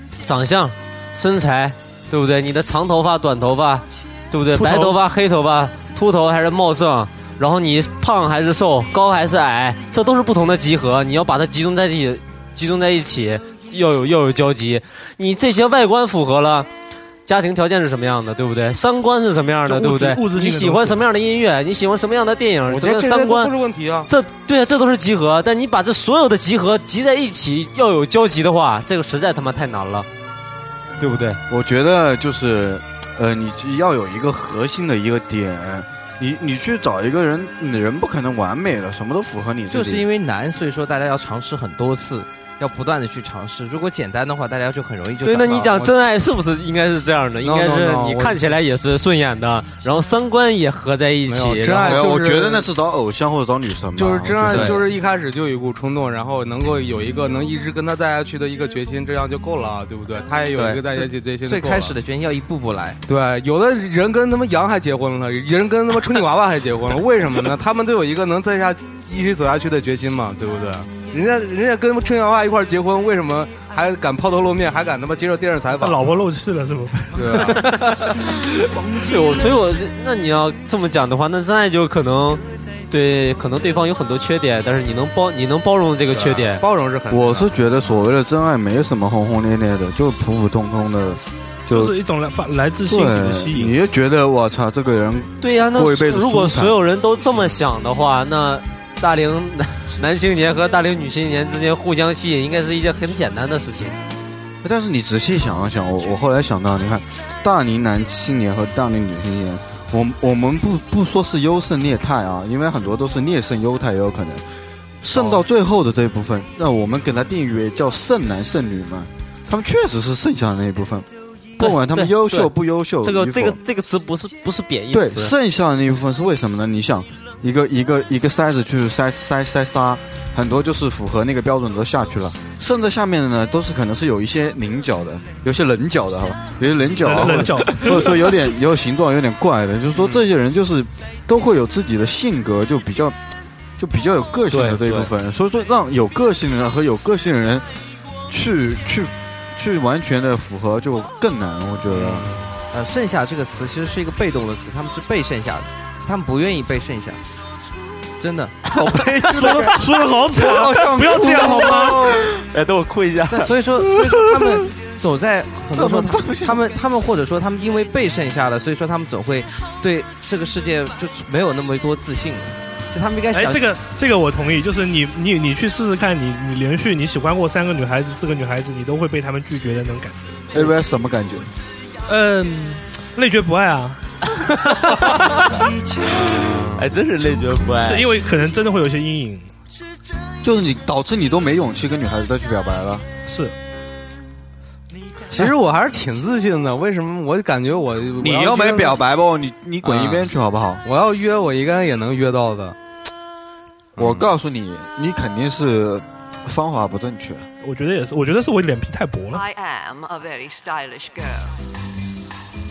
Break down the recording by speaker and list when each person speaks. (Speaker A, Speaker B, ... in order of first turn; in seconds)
Speaker A: 0.2-16.7, 17.2-23.5, 24.1-30.1, 31.0-31.4, 45.2-52.0, 77.5-86.6, 95.4-104.0, 121.6-122.5, 123.0-125.3, 144.5-145.1, 159.0-159.7, 162.1-163.5, 184.5-188.2
Speaker B: 4.5-5.0, 19.6-21.0, 75.8-77.6, 91.7-93.7, 136.9-138.2, 159.3-162.1, 173.3-180.7, 182.1-184.9, 187.8-189.5, 193.2-193.5, 207.6-209.4
Speaker C: 22.7-24.1, 51.3-52.6, 53.9-62.0, 63.1-76.2, 77.1-77.8, 86.1-87.5, 151.9-152.6, 186.1-187.0, 195.3-199.0, 199.8-200.3, 200.8-202.8, 203.9-204.3
Speaker D: 31.5-40.0, 47.5-48.3, 51.8-54.8, 87.1-92.0, 92.9-96.8, 104.6-114.4, 115.0-123.6, 124.9-143.2, 143.8-147.7, 148.3-152.3, 158.7-162.3, 165.7-166.6, 180.5-181.5, 190.4-193.1, 198.2-200.8, 204.0-207.5
Speaker E: 39.7-45.9, 54.5-54.9, 60.5-63.0, 152.7-157.2, 158.2-158.6, 163.3-173.6
Speaker F: 209.3-211.5